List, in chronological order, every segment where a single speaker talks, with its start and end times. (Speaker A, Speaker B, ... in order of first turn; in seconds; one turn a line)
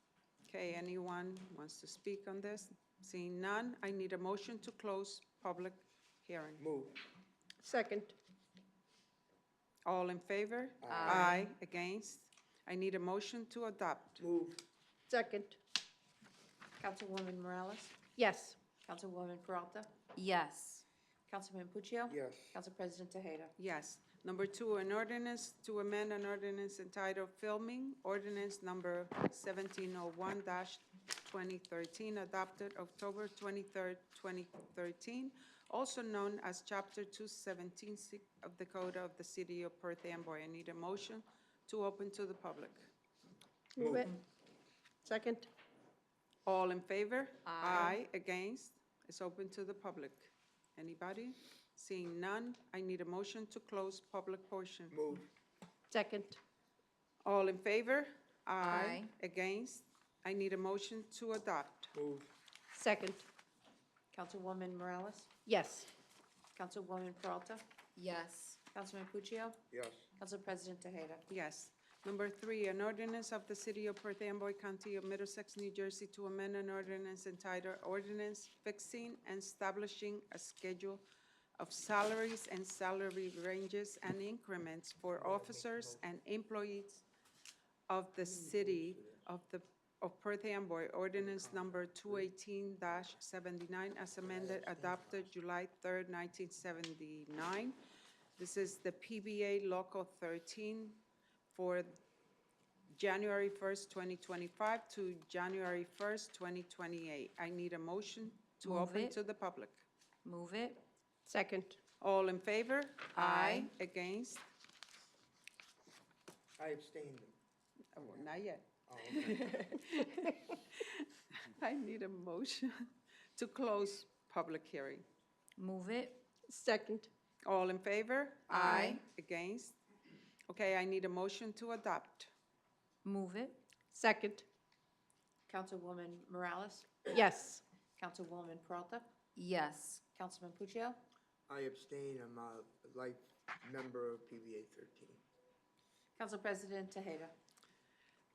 Speaker A: 0.5-6.6
Speaker B: 6.6-7.0
Speaker C: 7.6-8.2
Speaker A: 9.9-14.3
Speaker B: 10.8-11.3
Speaker D: 10.8-11.5
Speaker B: 14.2-14.6
Speaker C: 15.1-15.6
Speaker E: 16.8-18.1
Speaker C: 18.2-18.6
Speaker E: 18.8-19.9
Speaker D: 20.1-20.8
Speaker E: 21.3-23.5
Speaker B: 22.1-22.6
Speaker A: 23.6-42.9
Speaker C: 43.8-44.2
Speaker B: 43.8-44.1
Speaker C: 45.0-45.5
Speaker A: 46.5-55.0
Speaker D: 47.5-48.0
Speaker B: 54.9-55.3
Speaker C: 55.9-56.4
Speaker A: 57.2-61.9
Speaker D: 58.6-59.1
Speaker B: 61.9-62.3
Speaker C: 62.7-63.2
Speaker E: 64.1-65.4
Speaker C: 65.5-65.9
Speaker E: 66.5-67.6
Speaker D: 68.0-68.6
Speaker E: 68.7-69.6
Speaker B: 69.7-70.0
Speaker E: 70.2-71.2
Speaker A: 71.3-81.0
Speaker A: 81.6-87.0
Speaker B: 85.2-86.1
Speaker A: 87.9-97.8
Speaker B: 88.2-89.2
Speaker B: 91.2-92.3
Speaker B: 94.2-95.2
Speaker A: 98.4-102.0
Speaker A: 102.9-109.8
Speaker D: 108.6-109.2
Speaker D: 110.2-110.8
Speaker C: 111.3-111.8
Speaker A: 112.0-114.5
Speaker D: 113.1-113.7
Speaker B: 116.6-117.3
Speaker A: 118.0-125.0
Speaker B: 118.9-119.7
Speaker D: 125.6-126.2
Speaker C: 126.5-127.1
Speaker A: 127.5-129.8
Speaker D: 128.5-129.0
Speaker C: 128.5-129.0
Speaker A: 130.5-132.3
Speaker D: 133.1-133.6
Speaker C: 133.9-134.4
Speaker E: 135.5-137.1
Speaker C: 137.1-137.6
Speaker E: 138.0-139.1
Speaker D: 139.4-140.0
Speaker E: 140.1-141.0
Speaker B: 141.5-145.2
Speaker E: 146.2-147.3